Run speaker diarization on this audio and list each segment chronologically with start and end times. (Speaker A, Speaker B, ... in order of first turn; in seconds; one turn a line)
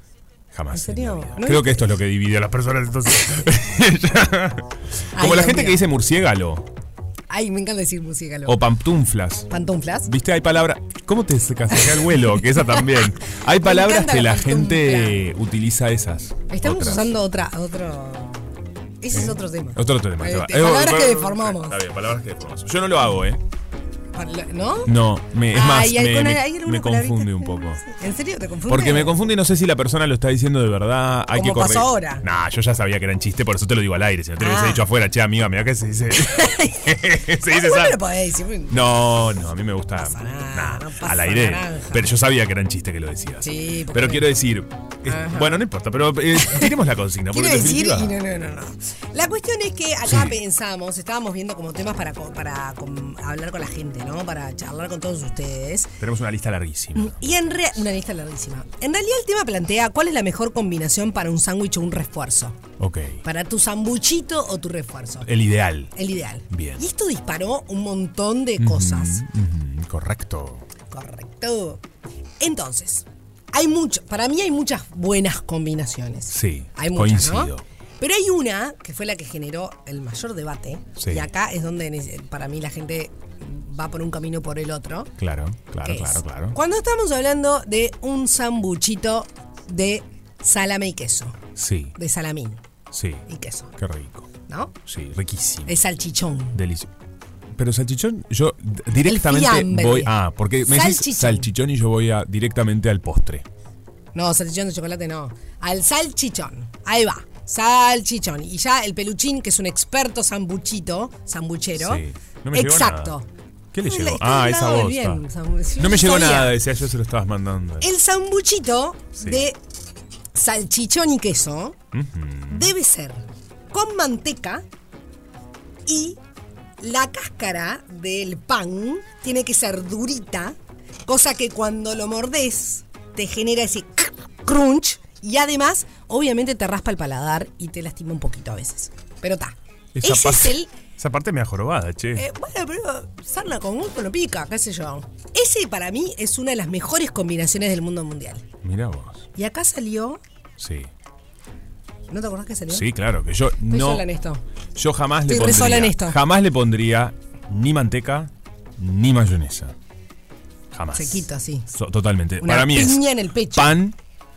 Speaker A: 0.5-6.7
Speaker B: 0.7-1.8
Speaker B: 5.2-5.8
Speaker B: 7.3-8.6
Speaker A: 8.4-9.5
Speaker B: 9.5-10.1
Speaker A: 10.0-17.2
Speaker B: 12.5-12.8
Speaker B: 13.6-15.2
Speaker B: 16.5-18.4
Speaker B: 19.0-21.8
Speaker A: 19.1-23.4
Speaker B: 24.1-24.9
Speaker A: 24.9-27.8
Speaker B: 25.5-29.2
Speaker A: 28.7-38.0
Speaker B: 31.3-32.2
Speaker B: 34.4-34.8
Speaker B: 36.2-36.9
Speaker B: 37.4-39.0
Speaker A: 38.7-48.4
Speaker B: 40.0-42.1
Speaker B: 43.4-44.3
Speaker B: 45.1-45.6
Speaker B: 46.4-46.7
Speaker B: 47.3-56.0
Speaker A: 50.0-50.4
Speaker A: 56.0-57.4
Speaker B: 56.9-62.6
Speaker A: 62.8-63.2
Speaker B: 63.2-65.3
Speaker A: 65.2-65.9
Speaker B: 65.9-69.2
Speaker A: 66.5-66.8
Speaker A: 68.6-70.6
Speaker B: 70.9-71.8
Speaker B: 72.4-85.1
Speaker A: 76.3-77.6
Speaker A: 81.0-81.3
Speaker A: 85.2-86.6
Speaker B: 85.8-91.4
Speaker A: 91.5-91.9
Speaker B: 92.0-92.6
Speaker A: 92.9-93.2
Speaker B: 93.3-93.7
Speaker A: 93.8-94.3
Speaker B: 94.5-94.7
Speaker A: 94.8-95.7
Speaker B: 95.6-96.6
Speaker A: 96.5-96.9
Speaker A: 97.5-103.4
Speaker B: 99.0-101.5
Speaker B: 104.1-113.3
Speaker A: 111.8-113.2
Speaker A: 113.7-115.2
Speaker B: 113.8-116.5
Speaker A: 115.8-117.9
Speaker B: 117.8-119.6
Speaker B: 120.3-121.8
Speaker A: 121.9-122.7
Speaker B: 122.5-124.6
Speaker B: 125.8-126.2
Speaker B: 126.8-140.7
Speaker A: 139.9-142.2
Speaker B: 142.2-148.4
Speaker A: 148.6-149.2
Speaker B: 149.3-150.2
Speaker A: 150.6-150.9
Speaker B: 152.1-152.9
Speaker A: 152.7-154.0
Speaker B: 153.7-154.4
Speaker A: 154.7-159.7
Speaker B: 155.3-156.2
Speaker A: 160.7-163.9
Speaker B: 160.9-161.7
Speaker B: 162.4-163.8